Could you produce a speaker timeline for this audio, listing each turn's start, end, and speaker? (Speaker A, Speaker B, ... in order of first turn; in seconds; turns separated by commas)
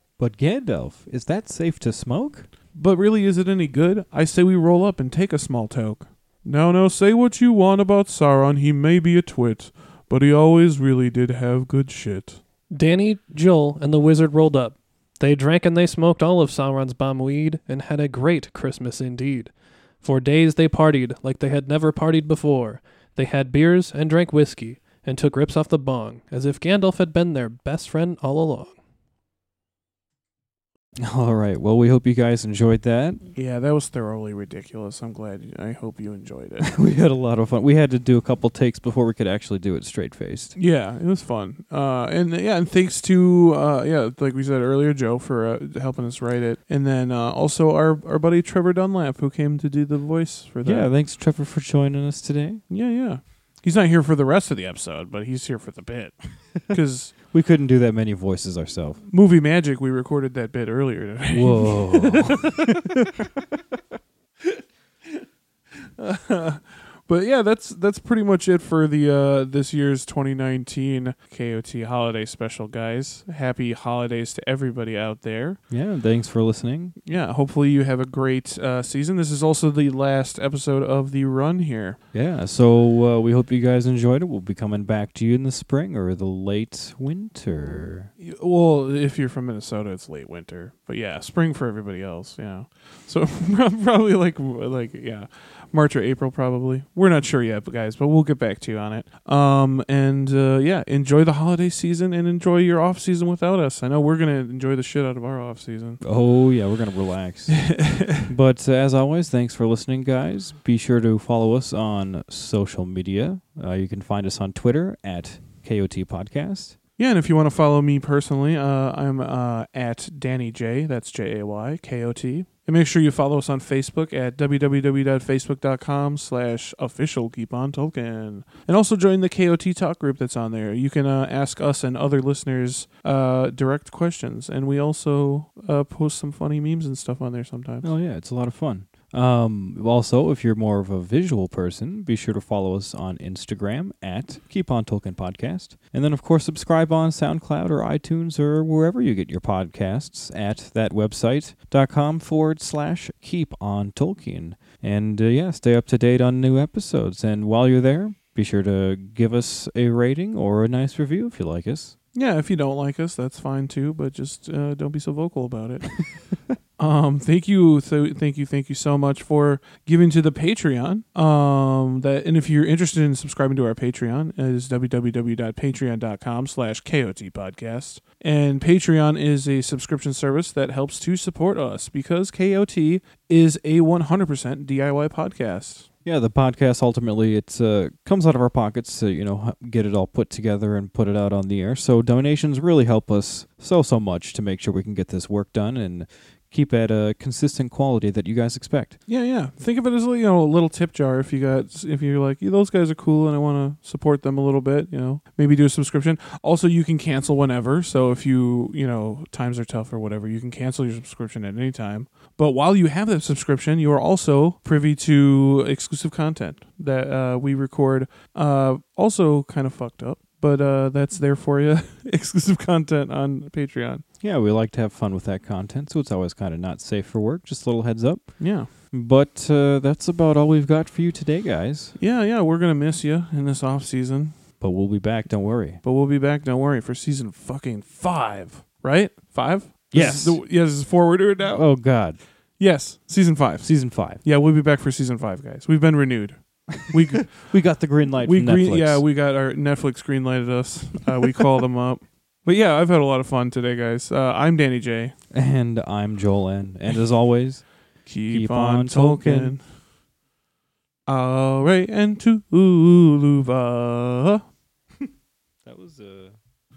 Speaker A: 0.2-2.5, Speaker B: 2.7-12.4, Speaker C: 12.7-28.8, Speaker A: 31.0-33.2, Speaker B: 33.4-36.7, Speaker A: 36.6-40.5, Speaker B: 40.5-50.9, Speaker A: 50.6-52.6, Speaker B: 52.7-57.1, Speaker A: 57.3-59.0, Speaker B: 59.1-62.9, Speaker A: 61.3-63.4, Speaker B: 66.0-75.6, Speaker A: 75.7-77.0, Speaker B: 77.0-82.0, Speaker A: 82.1-88.1, Speaker B: 88.2-106.0, Speaker A: 106.0-116.8, Speaker B: 107.5-108.3, Speaker B: 117.0-137.9, Speaker A: 137.8-161.9, Speaker B: 162.1-165.9, Speaker B: 166.8-185.9, Speaker A: 186.0-199.0, Speaker B: 199.1-224.0, Speaker A: 224.2-231.9, Speaker B: 228.4-228.7, Speaker B: 232.0-234.3, Speaker A: 234.6-235.8, Speaker B: 235.8-241.7, Speaker A: 239.9-240.4, Speaker A: 241.5-242.2, Speaker B: 242.6-247.3, Speaker A: 243.6-244.2, Speaker A: 247.3-249.0, Speaker B: 248.2-255.1, Speaker A: 255.3-257.6, Speaker B: 258.1-259.6, Speaker A: 258.3-259.6, Speaker B: 261.1-264.4, Speaker A: 265.6-266.4